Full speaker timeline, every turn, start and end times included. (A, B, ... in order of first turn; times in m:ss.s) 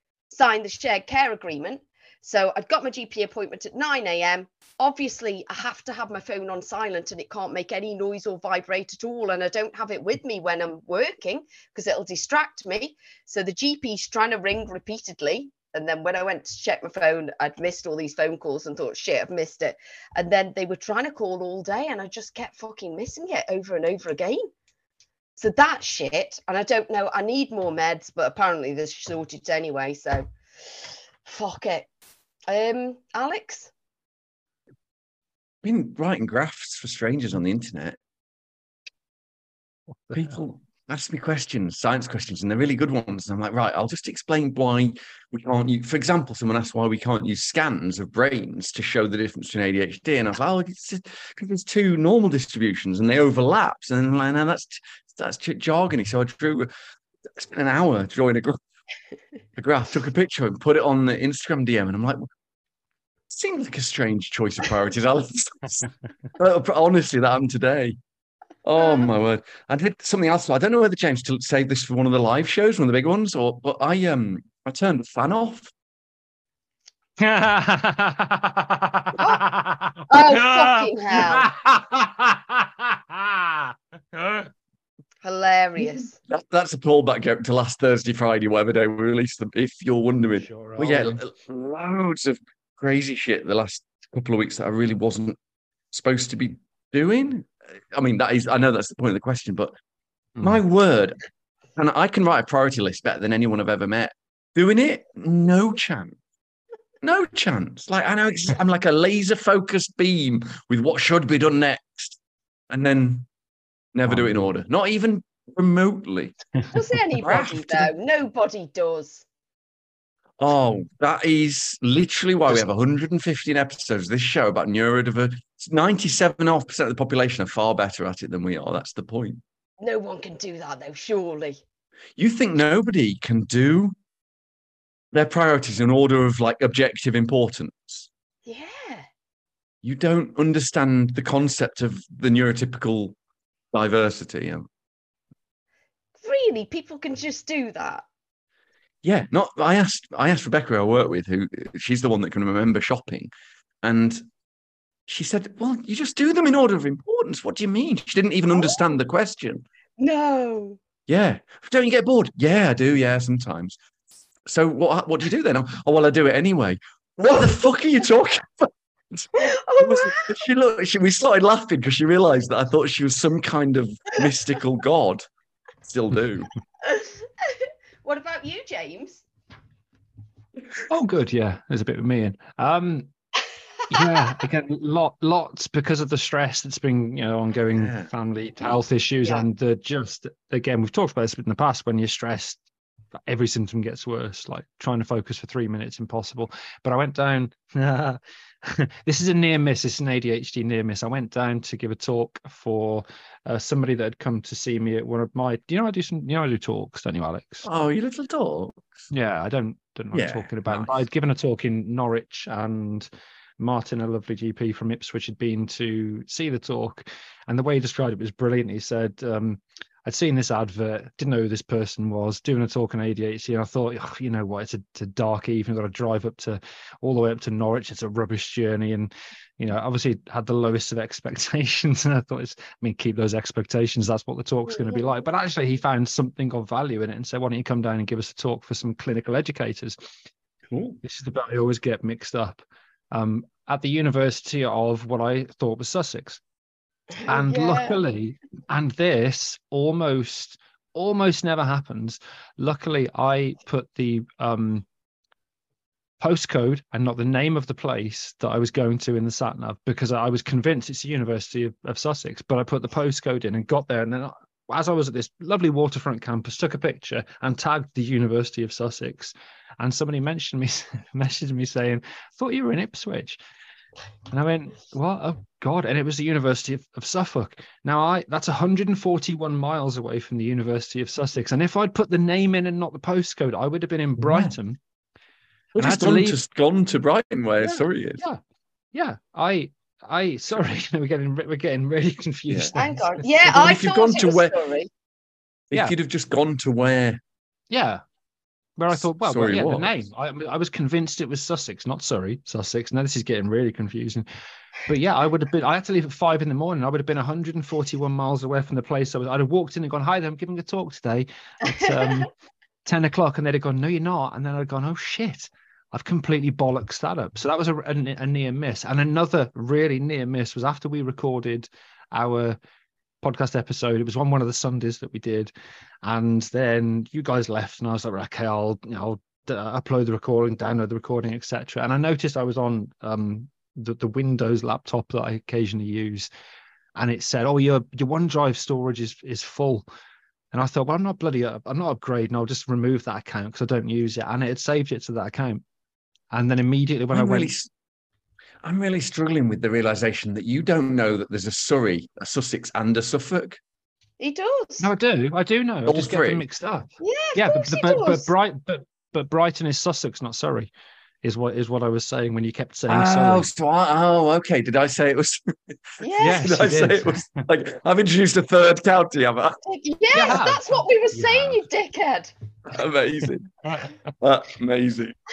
0:00.3-0:24.5 A
0:25.4-0:30.3 A
0:31.2-0:31.9 A
0:32.5-0:33.7 A
0:35.6-0:38.0 B
0:40.1-0:56.7 B
0:57.3-0:58.6 B
0:59.6-1:02.3 B
1:03.3-1:08.0 B
1:08.6-1:15.7 B
1:17.2-1:24.5 C
1:19.2-1:19.4 A
1:20.1-1:21.5 A
1:25.2-1:26.1 A
1:26.3-1:35.4 B
1:30.4-1:31.2 C
1:35.9-1:39.7 B
1:40.4-1:41.2 B
1:41.8-1:46.2 B
1:47.0-1:52.2 B
1:52.7-1:53.3 B
1:53.9-1:56.4 B
1:54.1-1:54.4 C
1:56.7-1:59.2 A
1:57.2-1:57.9 B
2:00.4-2:09.4 B
2:09.8-2:11.6 A
2:12.2-2:14.0 B
2:15.1-2:18.1 B
2:18.4-2:19.1 A
2:19.8-2:23.2 B
2:23.7-2:24.7 B
2:26.2-2:28.0 A
2:29.0-2:33.3 B
2:33.8-2:34.2 B
2:35.1-2:39.6 B
2:38.5-2:38.9 A
2:40.0-2:40.8 A
2:41.1-2:43.8 B
2:44.4-2:55.3 B
2:49.4-2:50.4 A
2:55.8-2:56.5 B
2:56.8-2:59.2 A
3:00.9-3:03.1 C
3:03.9-3:12.6 C
3:04.0-3:04.3 A
3:07.7-3:08.1 B
3:13.3-3:27.7 C
3:27.6-3:28.9 B
3:29.1-4:00.1 C
3:30.1-3:31.0 B
4:00.7-4:01.0 B
4:01.0-4:06.4 C
4:07.1-4:08.0 A
4:07.3-4:14.8 C
4:16.2-4:33.4 C
4:34.3-4:44.8 C
4:44.2-4:44.5 B
4:45.8-4:48.2 B
4:45.8-4:46.4 C
4:47.6-4:48.4 C
4:48.9-4:53.6 C
4:52.5-4:52.7 B
4:52.7-4:54.9 A
4:53.4-4:54.6 B
4:55.7-4:57.2 B
4:57.7-4:58.0 C
4:58.8-5:04.2 C
4:58.9-4:59.9 B
5:04.8-5:12.3 C
5:11.7-5:12.1 A
5:12.8-5:22.6 C
5:23.2-5:25.5 C
5:26.0-5:36.3 C
5:37.0-5:39.8 C
5:40.5-5:45.6 C
5:46.3-5:47.5 C
5:47.1-5:47.7 B
5:48.6-5:53.6 B
5:54.2-5:54.9 A
5:54.8-6:00.7 C
5:55.8-5:56.4 B
5:57.0-5:58.3 A
6:01.2-6:03.5 C
6:02.9-6:09.6 B
6:06.0-6:06.6 A
6:06.2-6:07.4 C
6:09.6-6:12.3 A
6:10.1-6:10.6 C
6:11.2-6:11.6 C
6:12.7-6:13.5 B
6:13.6-6:13.9 C
6:14.2-6:15.1 B